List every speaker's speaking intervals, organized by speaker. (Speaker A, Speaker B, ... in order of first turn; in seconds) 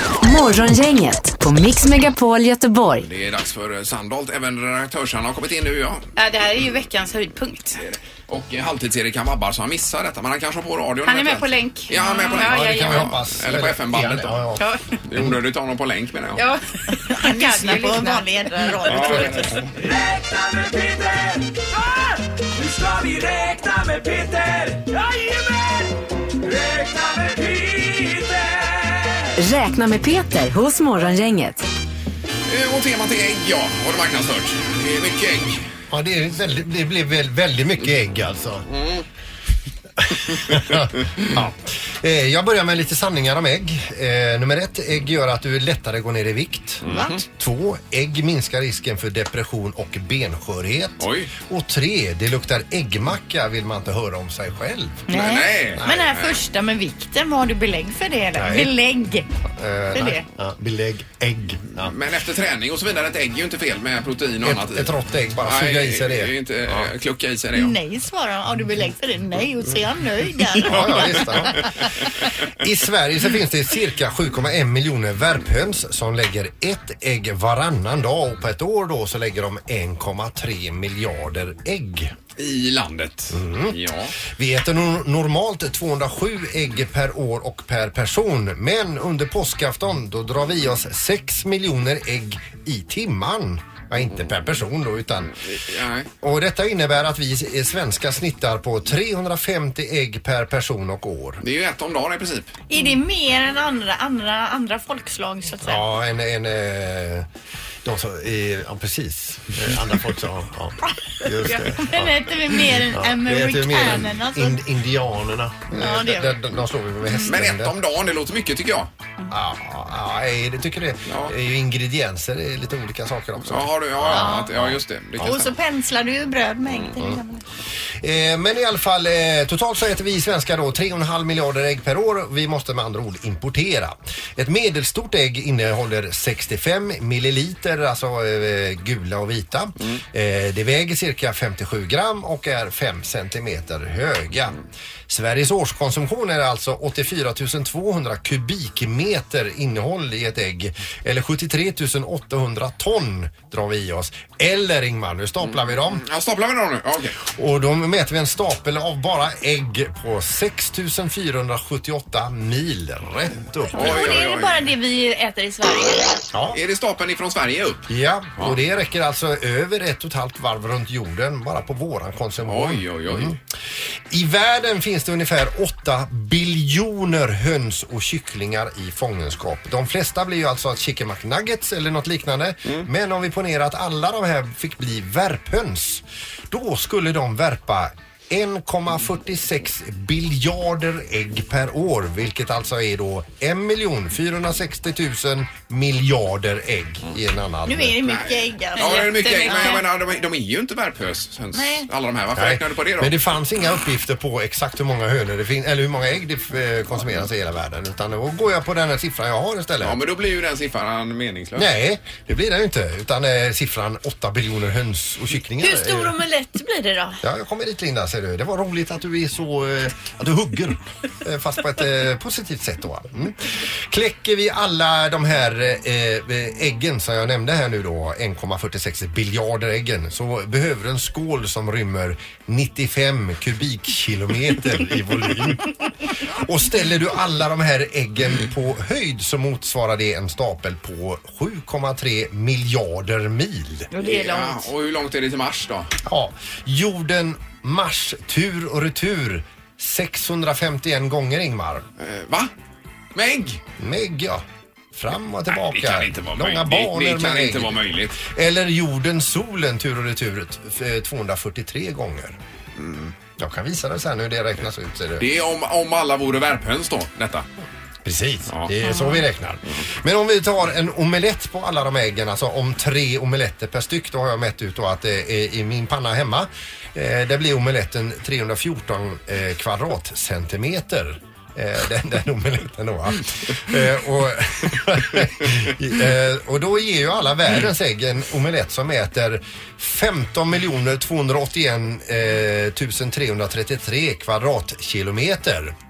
Speaker A: 0.2-3.1, 29.4-31.6
Speaker B: 3.0-6.1, 7.8-14.4, 15.0-16.4, 18.8-19.7, 32.5-35.6, 38.7-39.0, 46.8-47.2, 51.0-51.3, 55.1-56.4, 61.8-67.8, 70.6-71.8, 82.3-84.1, 95.4-96.1, 101.4-102.5, 117.2-118.9, 121.1-121.3, 123.4-125.5, 155.4-157.2, 163.7-164.7, 166.5-167.8, 172.4-173.4, 198.1-203.2, 209.8-211.7, 244.0-245.9, 252.0-252.5, 253.1-253.6, 255.5-258.1, 262.8-263.1, 265.2-267.4, 268.5-268.7
Speaker C: 6.2-6.6, 7.1-7.7, 11.0-13.1, 16.4-18.9, 198.8-199.6
Speaker D: 6.4-7.3, 12.0-12.4, 16.9-19.5, 46.9-47.2, 55.1-59.2, 59.9-60.2, 67.5-71.9, 102.7-105.8, 111.4-114.6, 115.7-116.4, 124.1-124.5, 125.2-127.4, 163.7-166.2, 197.7-199.8, 201.5-201.8, 215.6-217.2, 243.9-244.7
Speaker E: 12.4-15.4, 35.9-38.7, 40.0-55.1, 58.3-58.7, 59.5-61.9, 64.4-66.9, 70.6-71.7, 72.6-82.1, 83.3-95.3, 96.2-101.4, 105.6-107.3, 107.8-112.2, 112.8-117.7, 119.3-124.8, 128.0-144.6, 145.1-156.0, 157.2-164.2, 166.3-166.6, 167.9-173.4, 174.1-198.2, 202.3-210.0, 211.5-216.2, 217.2-235.7, 236.3-243.9, 246.0-251.8, 253.8-254.4, 254.9-262.4, 263.4-265.3, 268.0-295.7
Speaker F: 19.8-29.3